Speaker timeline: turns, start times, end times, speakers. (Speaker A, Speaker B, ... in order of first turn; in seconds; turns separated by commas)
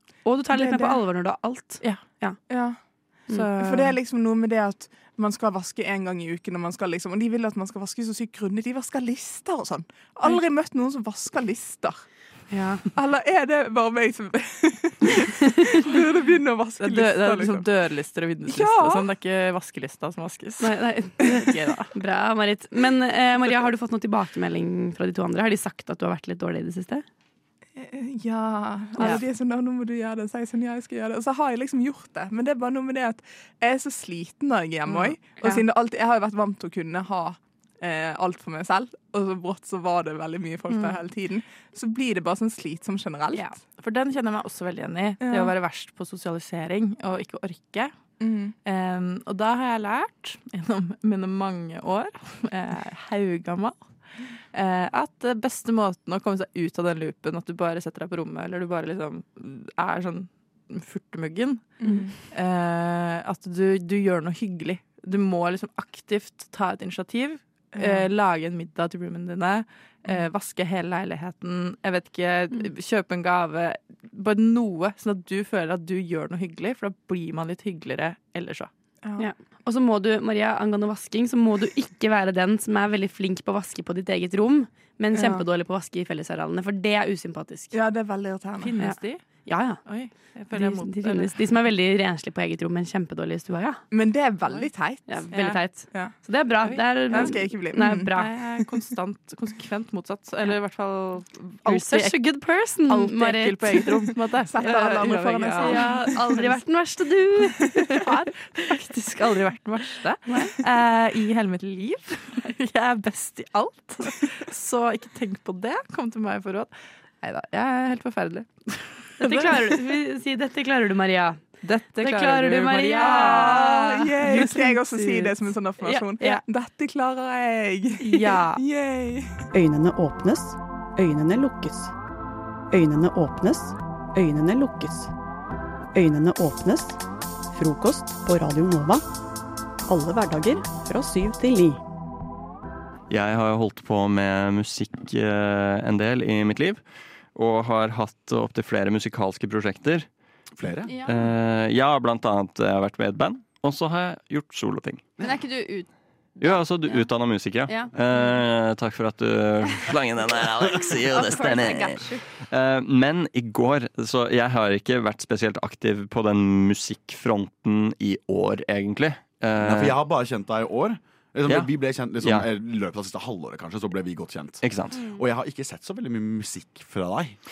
Speaker A: 0.5-1.1, Speaker B: 0.6-1.1, Speaker B: 1.8-2.7, Speaker A: 2.5-12.4, Speaker B: 3.3-4.0, Speaker A: 12.9-17.7, Speaker B: 16.8-22.0, Speaker A: 18.5-19.1, Speaker C: 20.9-21.1, Speaker C: 22.1-27.0, Speaker A: 27.8-43.5, Speaker B: 29.0-29.2, Speaker B: 43.3-78.7, Speaker A: 45.2-45.5, Speaker A: 48.2-48.5, Speaker A: 61.8-62.2, Speaker A: 67.7-68.1, Speaker A: 79.0-79.3, Speaker C: 79.2-87.7, Speaker A: 85.1-85.5, Speaker A: 87.7-88.9, Speaker B: 88.6-91.5, Speaker C: 89.5-89.8, Speaker C: 90.8-93.8, Speaker A: 93.9-95.4, Speaker C: 95.1-97.2, Speaker B: 95.3-107.3, Speaker A: 95.9-98.6, Speaker C: 97.7-98.1, Speaker C: 102.2-102.9, Speaker D: 102.9-103.9, Speaker A: 104.5-106.4, Speaker D: 105.6-106.5, Speaker B: 108.0-120.0, Speaker A: 119.3-119.6, Speaker C: 120.0-121.4, Speaker B: 121.6-125.3, Speaker D: 122.1-123.5, Speaker A: 123.1-129.3, Speaker B: 128.0-128.6, Speaker E: 129.5-131.9, Speaker E: 132.7-135.1, Speaker E: 135.9-137.0, Speaker E: 137.5-139.0, Speaker E: 139.9-141.8, Speaker F: 143.1-150.1, Speaker G: 150.6-150.9, Speaker D: 150.9-151.2, Speaker F: 150.9-155.2, Speaker D: 155.2-158.4, Speaker F: 156.4-170.0, Speaker D: 161.1-162.2, Speaker G: 169.6-177.4, Speaker F: 171.5-172.5, Speaker F: 174.6-175.1